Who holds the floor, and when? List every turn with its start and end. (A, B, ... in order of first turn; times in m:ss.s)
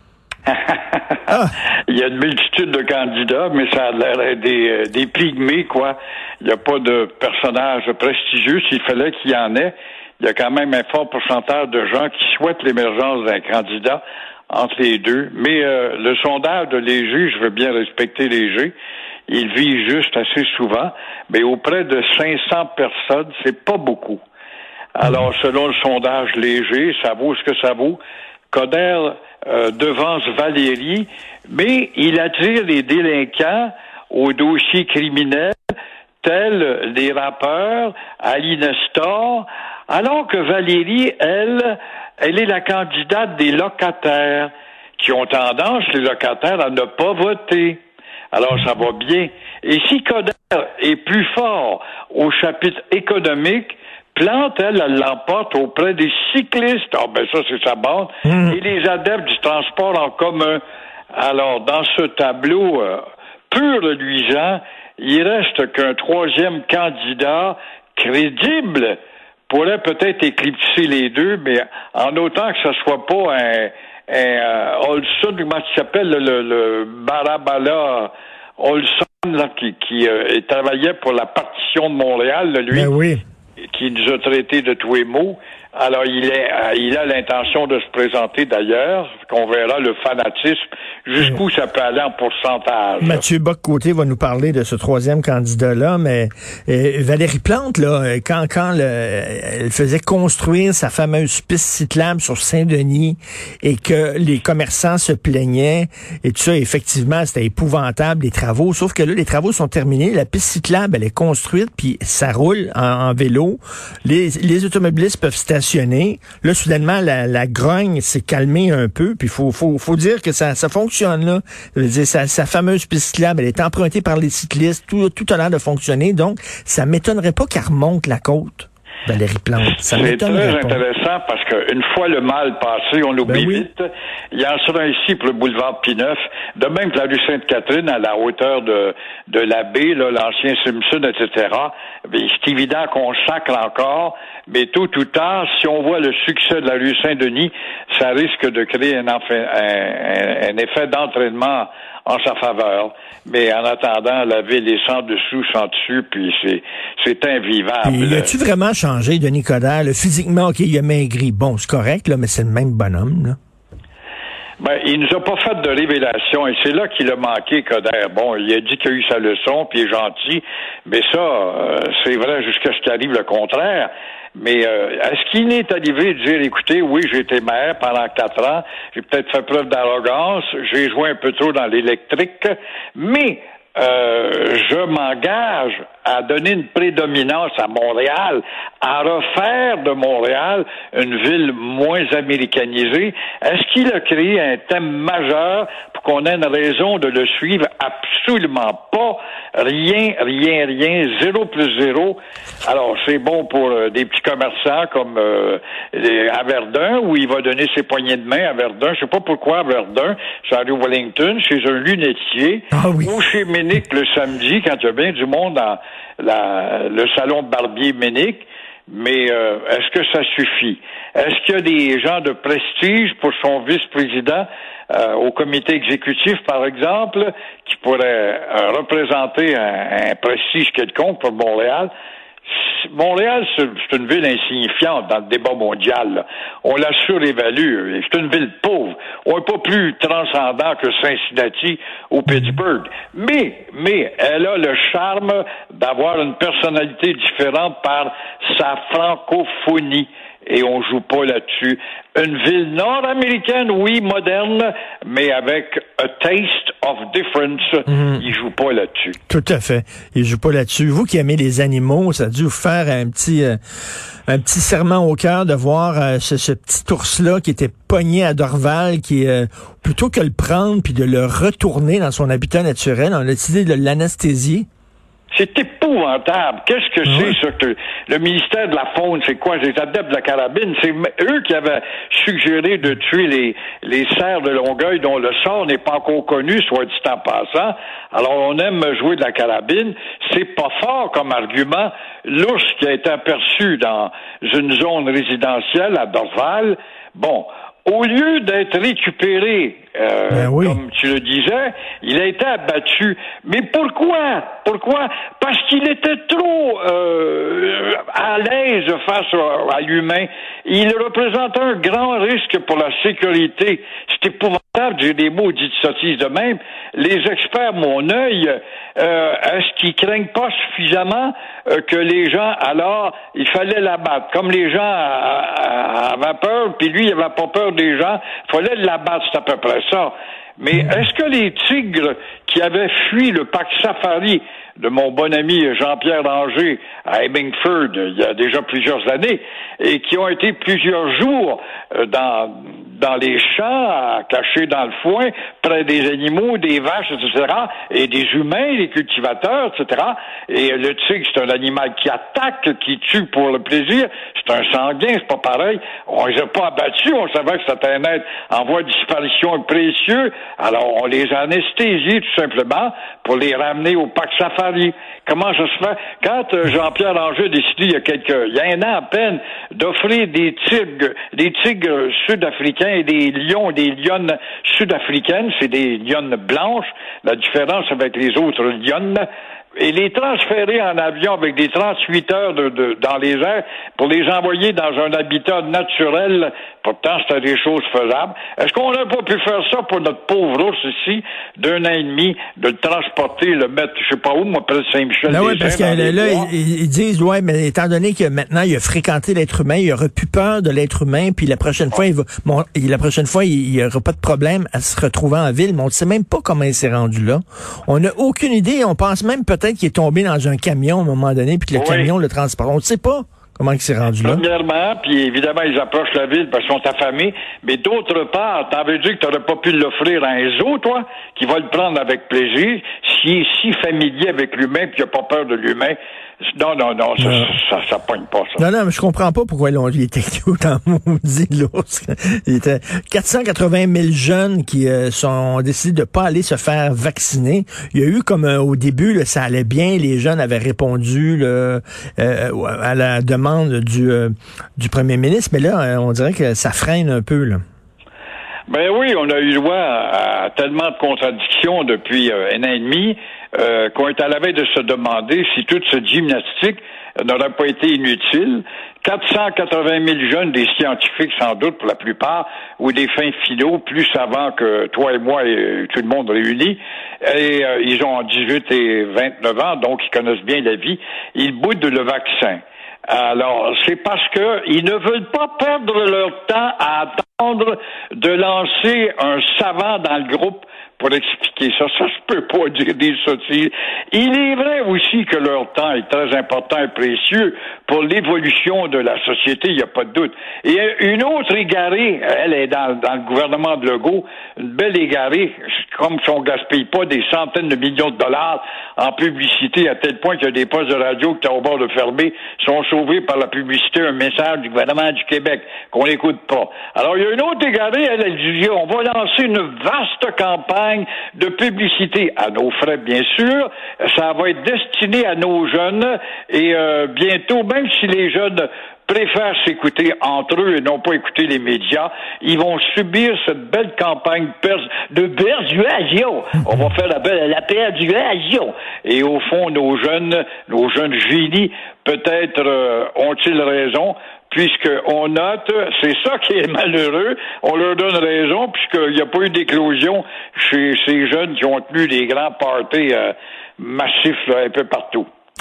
0:00.5-0:18.7 A
0:01.3-0:01.5 B
0:19.3-0:24.2 A
0:24.9-0:35.6 A
0:36.2-0:47.8 A
0:48.3-1:00.6 A
0:58.2-0:58.5 B
1:01.1-1:09.0 A
1:09.5-1:22.9 A
1:22.7-1:23.2 B
1:23.6-1:33.2 A
1:33.0-2:10.8 B
2:09.8-2:38.4 A
2:13.2-2:13.7 B
2:37.8-2:43.4 B
2:44.6-3:51.9 A
3:32.7-3:33.1 B
3:52.5-4:19.2 A
4:19.3-4:23.6 B
4:24.3-4:34.7 B
4:35.3-6:19.2 A
4:37.0-4:37.4 B
5:00.3-5:00.8 B
6:19.8-6:36.5 A
6:35.3-6:54.4 B
6:51.8-6:52.1 A
6:54.2-7:06.0 A
7:06.5-7:08.6 A
7:07.2-7:07.5 B
7:08.6-7:27.6 B
7:28.7-9:05.2 A